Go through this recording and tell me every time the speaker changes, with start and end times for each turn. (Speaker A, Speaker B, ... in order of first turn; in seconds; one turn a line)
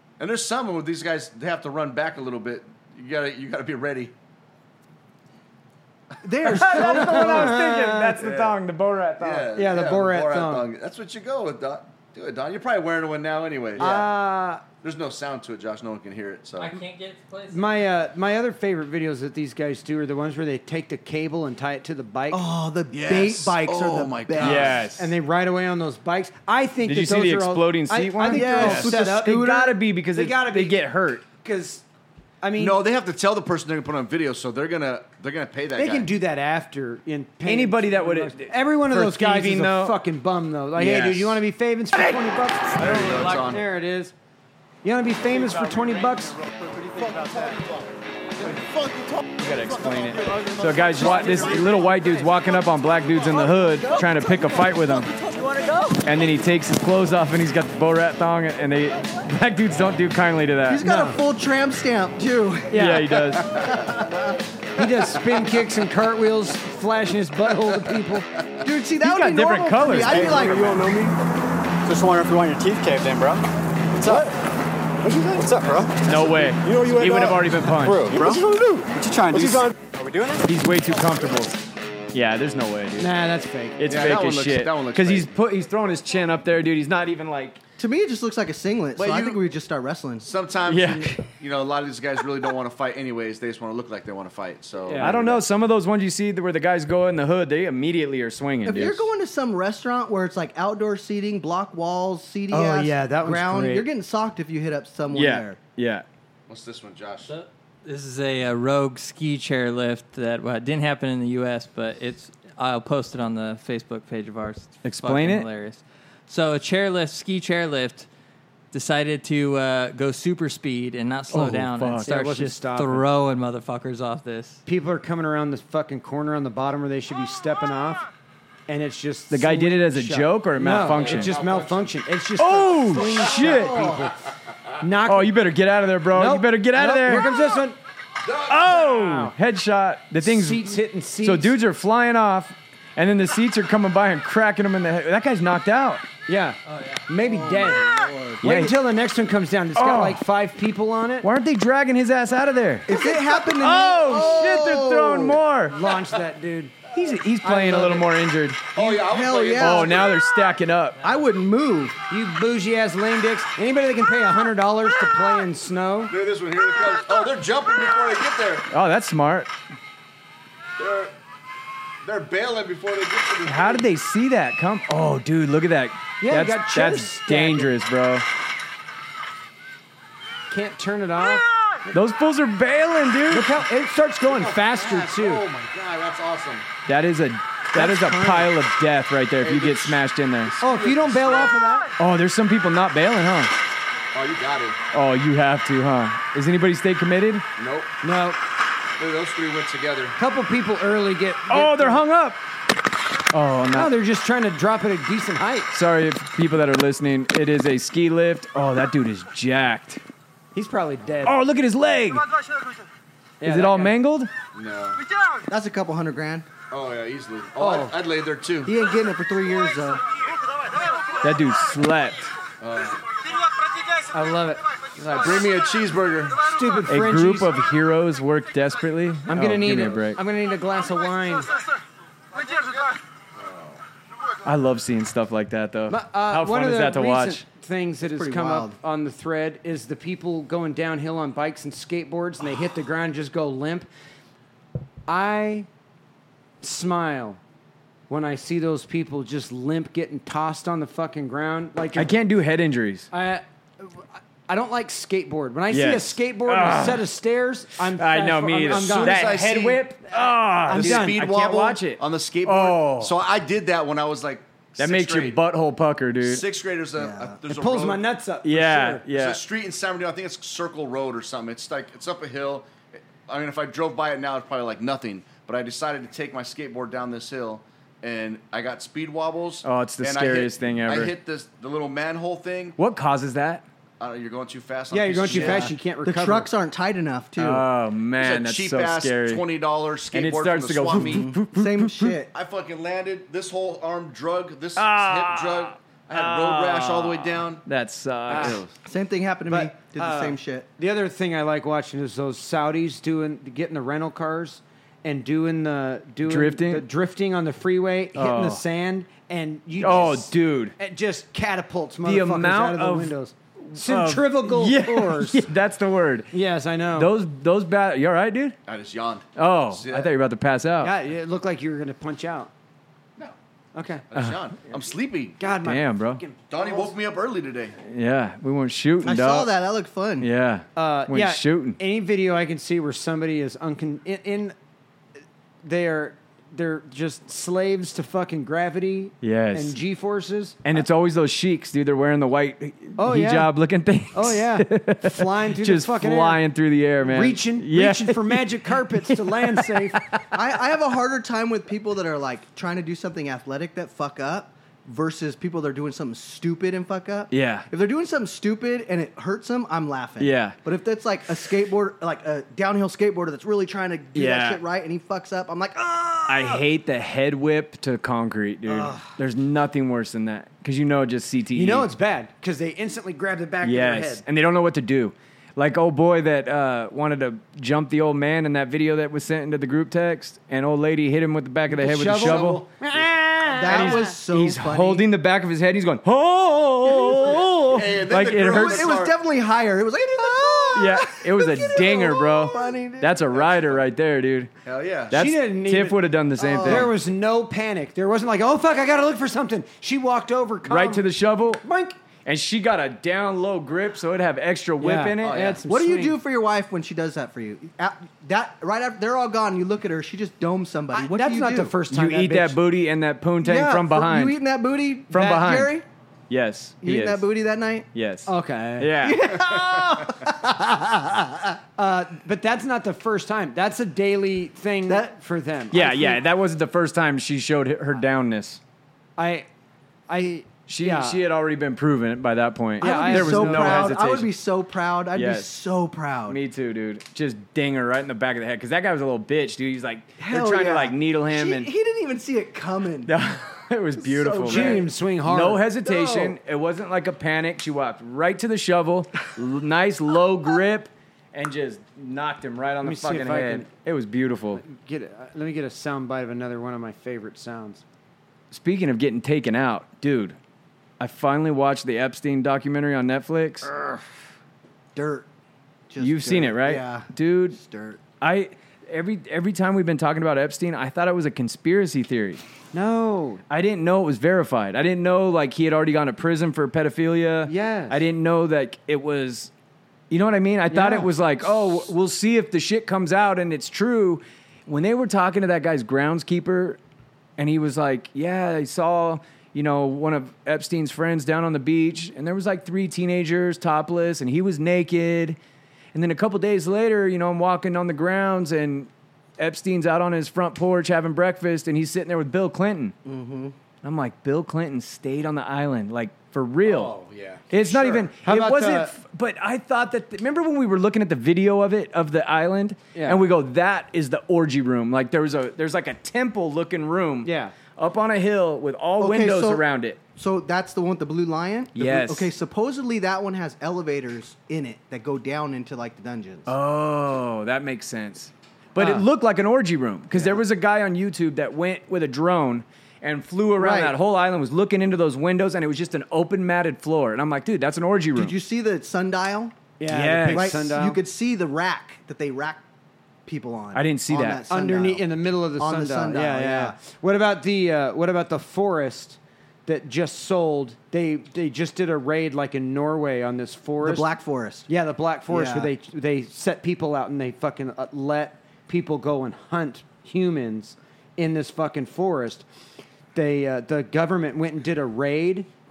Speaker A: 0.2-4.1
Speaker B: 6.2-7.6
Speaker C: 6.5-9.5
Speaker D: 6.7-8.1
Speaker A: 8.2-8.6
Speaker A: 9.2-14.2
Speaker D: 9.5-10.7
Speaker D: 13.8-14.6
Speaker A: 14.7-16.8
Speaker E: 16.6-17.6
Speaker D: 17.5-22.4
Speaker B: 22.3-24.8
Speaker A: 22.9-24.9
Speaker C: 24.4-25.1
Speaker D: 24.8-29.4
Speaker C: 26.9-31.2
Speaker B: 28.2-29.8
Speaker D: 30.1-31.8
Speaker D: 32.4-32.8
Speaker A: 32.6-36.1
Speaker D: 35.8-44.1
Speaker C: 37.5-40.0
Speaker C: 40.8-41.4
Speaker A: 42.8-43.6
Speaker E: 43.0-43.3
Speaker D: 44.8-46.4
Speaker A: 47.1-47.6
Speaker C: 49.4-55.1
Speaker C: 56.0-60.8
Speaker B: 60.7-64.4
Speaker D: 60.8-61.2
Speaker D: 62.7-63.1
Speaker C: 62.7-63.5
Speaker D: 64.8-68.3
Speaker B: 68.6-71.2
Speaker C: 69.0-70.7
Speaker F: 70.1-70.4
Speaker F: 71.8-74.3
Speaker F: 75.0-80.5
Speaker C: 76.0-78.3
Speaker D: 79.4-79.7
Speaker C: 80.5-81.6
Speaker C: 82.1-83.2
Speaker D: 83.0-83.8
Speaker C: 83.8-87.6
Speaker A: 83.9-85.3
Speaker B: 87.8-90.3
Speaker A: 89.0-89.4
Speaker A: 90.2-95.4
Speaker C: 90.7-91.3
Speaker D: 94.8-95.2
Speaker C: 95.0-99.1
Speaker B: 98.7-105.6
Speaker D: 102.5-103.9
Speaker C: 105.1-106.0
Speaker A: 106.5-107.3
Speaker E: 107.2-118.1
Speaker C: 114.8-115.5
Speaker E: 118.7-124.6
Speaker C: 121.3-122.3
Speaker D: 122.0-123.1
Speaker D: 124.7-128.0
Speaker D: 128.7-134.2
Speaker C: 129.3-131.4
Speaker A: 130.8-131.9
Speaker C: 132.4-133.9
Speaker A: 133.1-133.9
Speaker B: 133.4-134.1
Speaker D: 134.8-135.4
Speaker C: 135.1-137.3
Speaker D: 136.1-137.8
Speaker A: 138.2-138.8
Speaker C: 138.5-146.1
Speaker D: 138.7-139.3
Speaker D: 140.2-141.6
Speaker D: 146.3-147.9
Speaker E: 146.7-147.0
Speaker B: 147.2-148.4
Speaker D: 148.4-151.3
Speaker C: 148.4-148.8
Speaker C: 149.8-150.2
Speaker C: 151.2-155.8
Speaker B: 152.9-155.4
Speaker D: 155.7-156.9
Speaker C: 156.9-158.9
Speaker D: 157.4-158.1
Speaker A: 158.8-160.2
Speaker B: 158.9-160.1
Speaker C: 159.6-161.0
Speaker B: 161.0-162.0
Speaker D: 162.1-166.1
Speaker A: 166.1-168.7
Speaker C: 168.7-169.5
Speaker A: 170.8-171.1
Speaker A: 172.0-173.9
Speaker C: 173.5-178.2
Speaker D: 176.2-177.7
Speaker D: 180.5-182.0
Speaker C: 181.9-183.5
Speaker D: 183.3-185.5
Speaker A: 184.3-186.7
Speaker C: 186.9-190.6
Speaker D: 187.7-188.5
Speaker A: 189.4-191.6
Speaker D: 190.6-191.9
Speaker C: 192.0-193.5
Speaker A: 194.1-194.8
Speaker C: 194.9-197.5
Speaker A: 197.6-197.9
Speaker D: 198.0-198.4
Speaker A: 199.0-200.2
Speaker D: 200.2-202.0
Speaker C: 201.5-202.4
Speaker C: 203.3-203.9
Speaker D: 203.7-205.7
Speaker C: 205.7-210.0
Speaker D: 210.6-211.4
Speaker C: 211.2-212.3
Speaker D: 213.4-214.0
Speaker C: 213.4-214.3
Speaker A: 214.5-215.0
Speaker B: 215.5-216.5
Speaker A: 216.7-218.7
Speaker D: 217.6-218.0
Speaker B: 218.7-220.0
Speaker C: 221.2-222.3
Speaker A: 222.6-223.0
Speaker D: 224.1-225.4
Speaker A: 225.1-226.4
Speaker D: 226.4-227.5
Speaker C: 226.9-230.2
Speaker D: 229.3-231.5
Speaker A: 233.4-233.8
Speaker C: 234.4-237.4
Speaker D: 235.9-243.9
Speaker B: 238.0-238.8
Speaker D: 245.1-245.7
Speaker D: 246.6-247.4
Speaker D: 248.1-252.1
Speaker C: 251.9-253.1
Speaker D: 253.1-259.4
Speaker C: 255.7-257.1
Speaker C: 257.9-263.2
Speaker A: 258.6-259.9
Speaker D: 260.1-261.2
Speaker A: 260.7-265.4
Speaker C: 264.8-266.4
Speaker A: 266.2-268.1
Speaker B: 267.0-267.4
Speaker D: 267.5-269.1
Speaker C: 268.4-269.4
Speaker A: 269.1-282.8
Speaker C: 279.6-281.2
Speaker C: 282.8-283.6
Speaker A: 284.0-285.7
Speaker D: 284.9-286.5
Speaker B: 285.3-287.7
Speaker C: 287.4-289.4
Speaker A: 288.2-291.4
Speaker C: 290.1-292.2
Speaker B: 291.0-292.3
Speaker A: 292.3-297.6
Speaker C: 294.8-298.6
Speaker D: 298.3-298.6
Speaker A: 298.3-298.7
Speaker B: 298.8-300.7
Speaker D: 299.5-315.4
Speaker C: 306.2-306.9
Speaker C: 308.1-308.6
Speaker C: 309.8-310.8
Speaker C: 312.0-316.3
Speaker D: 316.3-317.1
Speaker C: 316.9-318.6
Speaker A: 318.6-320.1
Speaker C: 319.4-321.0
Speaker D: 320.8-322.5
Speaker D: 323.8-324.0
Speaker A: 324.1-325.4
Speaker D: 325.4-326.9
Speaker C: 325.6-326.2
Speaker A: 326.5-327.8
Speaker C: 327.8-329.5
Speaker B: 329.0-330.3
Speaker C: 330.2-331.8
Speaker D: 330.8-334.6
Speaker D: 335.6-340.6
Speaker C: 339.2-339.8
Speaker C: 340.6-350.2
Speaker D: 343.0-343.5
Speaker D: 344.1-346.4
Speaker D: 347.0-350.0
Speaker B: 350.3-366.6
Speaker C: 357.3-357.7
Speaker C: 360.2-360.6
Speaker C: 364.1-364.6
Speaker C: 366.3-371.9
Speaker B: 368.7-369.1
Speaker D: 371.5-374.2
Speaker C: 373.6-382.6
Speaker D: 381.7-384.1
Speaker A: 382.1-382.6
Speaker B: 383.5-385.1
Speaker C: 383.6-388.9
Speaker B: 386.9-387.5
Speaker A: 387.6-389.1
Speaker B: 388.4-393.5
Speaker C: 390.7-394.5
Speaker A: 393.4-393.8
Speaker A: 394.6-395.2
Speaker C: 395.1-396.9
Speaker D: 395.1-396.1
Speaker B: 396.4-396.9
Speaker D: 396.6-401.1
Speaker C: 400.6-401.6
Speaker D: 401.6-402.0
Speaker C: 402.2-405.6
Speaker D: 404.8-406.2
Speaker A: 405.2-405.6
Speaker B: 405.6-411.8
Speaker D: 410.9-412.6
Speaker C: 411.9-414.4
Speaker B: 413.4-415.9
Speaker C: 415.1-415.8
Speaker C: 416.3-417.2
Speaker B: 416.8-417.9
Speaker C: 417.9-419.4
Speaker D: 418.3-418.9
Speaker B: 419.0-421.5
Speaker A: 419.7-420.0
Speaker D: 421.8-425.8
Speaker B: 424.9-425.2
Speaker B: 425.7-426.2
Speaker C: 425.7-428.6
Speaker D: 429.2-429.5
Speaker D: 430.1-431.2
Speaker C: 430.7-434.3
Speaker D: 432.8-434.0
Speaker B: 432.8-436.4
Speaker C: 435.1-435.5
Speaker C: 436.3-441.7
Speaker B: 440.2-443.1
Speaker C: 443.1-454.6
Speaker B: 444.0-444.9
Speaker D: 444.4-446.3
Speaker B: 445.9-446.3
Speaker D: 452.8-453.7
Speaker D: 454.6-457.8
Speaker C: 458.5-460.4
Speaker C: 461.0-463.7
Speaker B: 464.9-465.3
Speaker B: 465.9-468.0
Speaker C: 466.0-467.6
Speaker C: 468.2-472.4
Speaker D: 472.7-473.4
Speaker C: 473.5-479.5
Speaker D: 477.5-478.0
Speaker C: 480.1-486.8
Speaker D: 480.7-481.1
Speaker C: 487.4-495.4
Speaker C: 495.9-502.9
Speaker B: 503.1-503.6
Speaker C: 503.8-506.9
Speaker A: 506.6-508.0
Speaker C: 507.5-520.0
Speaker D: 508.1-508.9
Speaker D: 512.9-513.2
Speaker D: 517.2-517.5
Speaker B: 519.0-519.6
Speaker B: 520.2-526.5
Speaker C: 521.8-522.3
Speaker C: 526.5-538.4
Speaker D: 528.8-529.0
Speaker B: 530.1-530.4
Speaker B: 533.6-534.0
Speaker B: 538.1-539.6
Speaker D: 539.8-541.0
Speaker C: 539.9-540.7
Speaker B: 540.3-542.6
Speaker B: 543.3-546.8
Speaker C: 543.7-544.4
Speaker D: 544.5-554.1
Speaker B: 553.8-554.7
Speaker D: 554.7-562.4
Speaker B: 555.3-555.7
Speaker D: 563.1-565.5